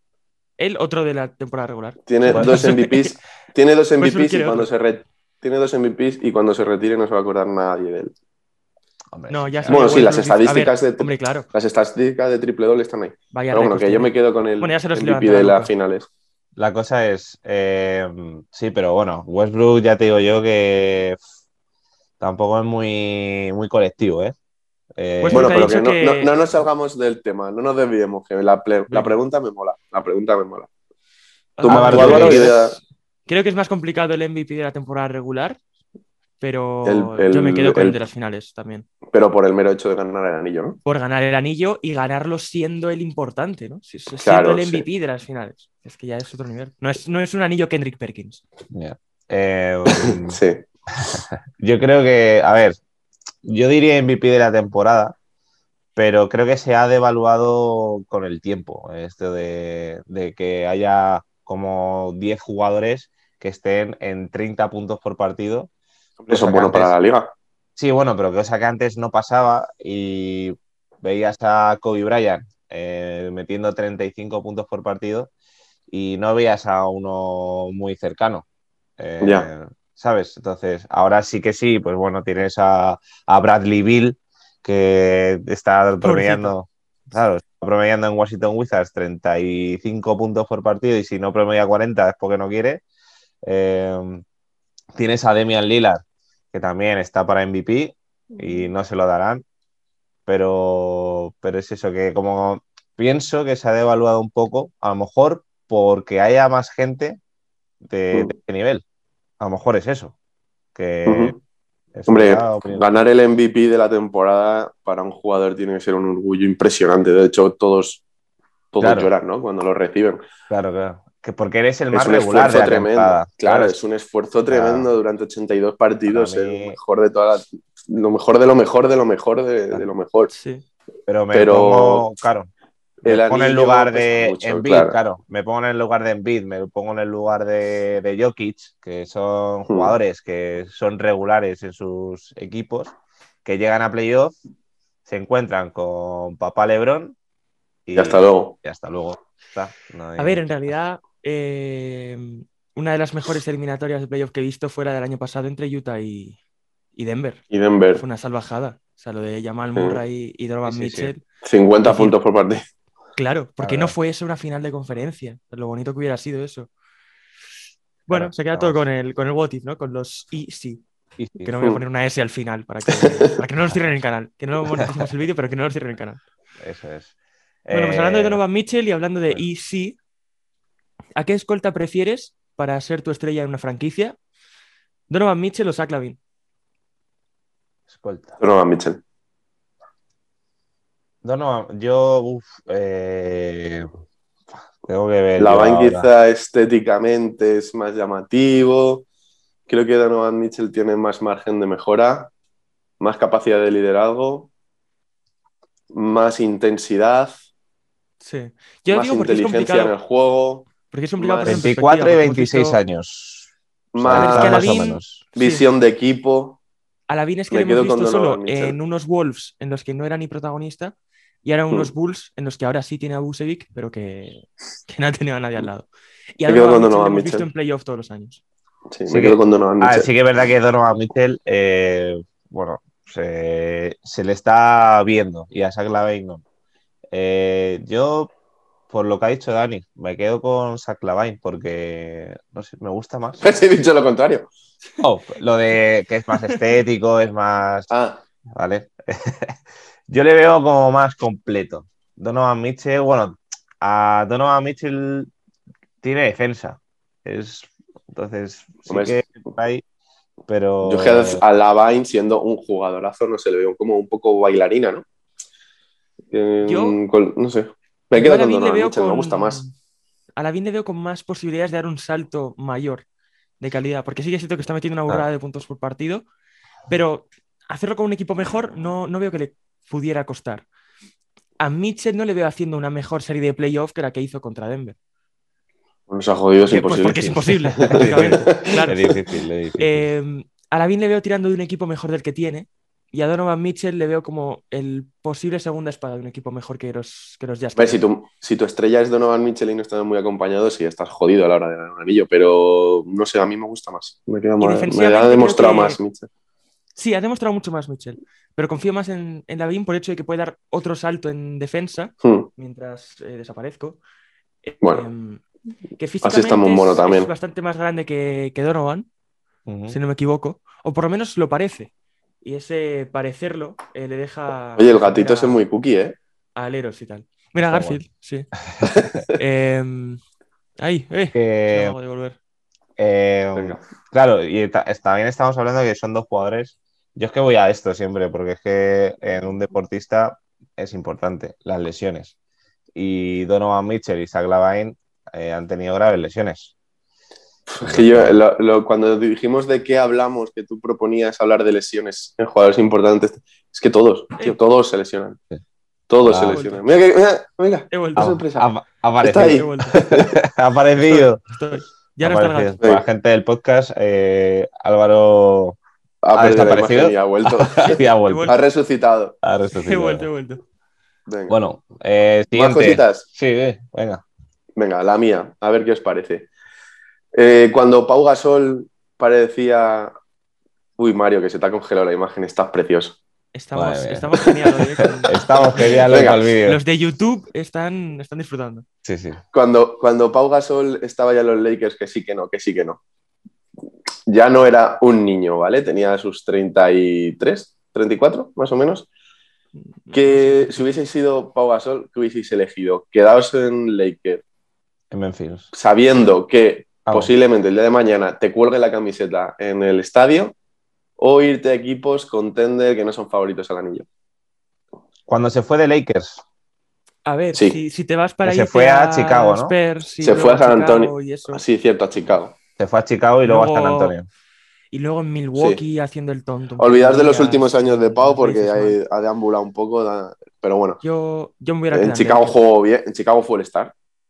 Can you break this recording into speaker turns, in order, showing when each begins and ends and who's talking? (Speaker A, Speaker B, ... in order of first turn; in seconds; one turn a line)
Speaker A: 0.6-3.1
Speaker B: 2.1-8.1
Speaker C: 2.3-2.7
Speaker A: 4.0-4.7
Speaker C: 9.1-10.0
Speaker A: 9.3-11.5
Speaker B: 9.7-16.1
Speaker A: 13.3-15.7
Speaker C: 16.6-21.2
Speaker C: 22.2-24.3
Speaker C: 25.0-25.6
Speaker A: 25.2-26.3
Speaker B: 25.3-30.7
Speaker A: 28.9-29.2
Speaker A: 31.6-32.7
Speaker B: 31.6-32.8
Speaker C: 31.7-32.6
Speaker A: 33.3-35.6
Speaker A: 36.4-38.9
Speaker B: 36.8-38.0
Speaker B: 39.1-40.8
Speaker A: 40.8-48.4
Speaker B: 44.2-44.9
Speaker C: 48.7-50.4
Speaker B: 49.9-50.6
Speaker C: 51.0-52.8
Speaker C: 53.4-55.1
Speaker C: 56.0-65.7
Speaker B: 66.2-67.3
Speaker C: 66.3-67.0
Speaker C: 67.8-75.3
Speaker C: 75.9-78.5
Speaker C: 79.0-92.8
Speaker B: 79.2-79.5
Speaker A: 86.0-86.5
Speaker C: 93.4-94.2
Speaker C: 94.9-96.0
Speaker C: 96.5-99.4
Speaker C: 100.2-107.2
Speaker C: 107.8-108.8
Speaker C: 109.4-110.1
Speaker C: 110.7-111.4
Speaker B: 111.0-111.3
Speaker C: 111.9-112.8
Speaker B: 112.1-118.0
Speaker B: 118.7-120.3
Speaker C: 118.8-119.1
Speaker C: 120.5-123.8
Speaker B: 121.9-130.3
Speaker C: 124.5-124.9
Speaker C: 126.1-126.8
Speaker A: 130.3-130.6
Speaker C: 131.1-132.5
Speaker B: 131.3-132.1
Speaker B: 133.0-134.9
Speaker C: 133.0-144.3
Speaker B: 139.7-139.9
Speaker C: 145.1-147.2
Speaker C: 147.8-150.7
Speaker B: 147.9-148.5
Speaker A: 150.2-156.4
Speaker A: 156.9-161.2
Speaker B: 157.5-158.0
Speaker C: 160.6-161.1
Speaker B: 161.4-162.6
Speaker A: 161.8-162.2
Speaker A: 163.2-166.7
Speaker C: 163.6-163.9
Speaker A: 168.1-170.8
Speaker C: 168.1-168.8
Speaker C: 171.2-171.5
Speaker A: 171.4-176.2
Speaker B: 173.0-173.3
Speaker C: 174.7-175.1
Speaker C: 176.6-177.1
Speaker C: 177.6-178.4
Speaker A: 177.7-180.0
Speaker A: 181.2-184.2
Speaker A: 185.1-186.2
Speaker C: 187.9-188.4
Speaker B: 188.4-189.0
Speaker C: 191.2-193.9
Speaker C: 194.8-196.1
Speaker B: 195.4-199.0
Speaker B: 199.7-202.3
Speaker B: 203.0-204.5
Speaker B: 205.9-207.3
Speaker A: 208.2-209.9
Speaker B: 208.9-211.7
Speaker A: 210.9-212.8
Speaker C: 211.4-215.2
Speaker B: 213.9-214.7
Speaker A: 214.1-215.7
Speaker B: 215.3-216.6
Speaker A: 217.1-228.4
Speaker B: 217.5-218.8
Speaker B: 226.4-227.5
Speaker B: 228.9-230.1
Speaker C: 229.1-236.4
Speaker C: 237.1-238.3
Speaker C: 238.9-243.4
Speaker B: 243.4-244.5
Speaker C: 245.0-247.9
Speaker B: 247.9-248.2
Speaker C: 248.5-255.3
Speaker C: 256.0-259.8
Speaker B: 258.9-259.4
Speaker C: 260.5-261.4
Speaker B: 260.8-265.0
Speaker B: 266.3-269.6
Speaker A: 266.6-267.0
Speaker A: 268.1-269.7
Speaker A: 270.4-273.1
Speaker A: 273.6-276.2
Speaker A: 276.9-280.6
Speaker A: 281.6-284.9
Speaker B: 286.1-288.9
Speaker A: 286.6-289.0
Speaker C: 287.1-290.1
Speaker A: 289.8-298.0
Speaker B: 297.8-306.3
Speaker A: 304.6-306.0
Speaker A: 306.9-314.0
Speaker B: 312.2-312.5
Speaker A: 314.6-315.4
Speaker A: 315.9-319.1
Speaker B: 316.2-317.3
Speaker C: 319.6-320.0
Speaker A: 319.9-321.9
Speaker A: 322.4-325.6
Speaker B: 324.8-326.1
Speaker A: 326.6-328.5
Speaker C: 327.6-328.0
Speaker B: 328.9-329.2
Speaker A: 329.3-330.2
Speaker A: 330.8-332.4
Speaker C: 331.3-331.9
Speaker C: 333.0-342.3
Speaker B: 333.5-333.8
Speaker C: 342.9-346.7
Speaker B: 347.7-355.4
Speaker C: 347.8-348.4
Speaker B: 356.1-358.7
Speaker C: 356.2-356.6
Speaker A: 356.5-356.8
Speaker A: 357.9-358.4
Speaker C: 358.2-361.4
Speaker B: 359.2-360.4
Speaker A: 359.4-360.0
Speaker A: 361.1-362.8
Speaker C: 362.2-365.8
Speaker B: 366.2-369.4
Speaker C: 366.3-368.5
Speaker A: 368.2-368.6
Speaker C: 369.4-370.3
Speaker A: 369.8-370.6
Speaker B: 371.3-371.6
Speaker C: 371.5-374.2
Speaker B: 372.5-373.3
Speaker B: 374.8-376.5
Speaker B: 377.3-380.1
Speaker B: 381.0-383.2
Speaker A: 383.5-388.9
Speaker C: 383.7-384.4
Speaker C: 385.2-386.8
Speaker B: 386.1-386.5
Speaker C: 389.0-389.4
Speaker B: 389.5-393.0
Speaker B: 394.3-399.1
Speaker A: 400.0-400.8
Speaker B: 400.1-404.4
Speaker C: 405.1-405.7
Speaker B: 405.7-410.5
Speaker C: 407.1-407.3
Speaker B: 411.2-414.1
Speaker C: 415.3-416.4
Speaker A: 417.2-421.6
Speaker C: 418.4-419.7
Speaker B: 420.2-422.5
Speaker C: 422.8-424.3
Speaker A: 423.4-424.1
Speaker A: 424.9-429.0
Speaker B: 425.5-425.8
Speaker B: 426.8-431.0
Speaker A: 431.0-432.6
Speaker B: 431.9-433.9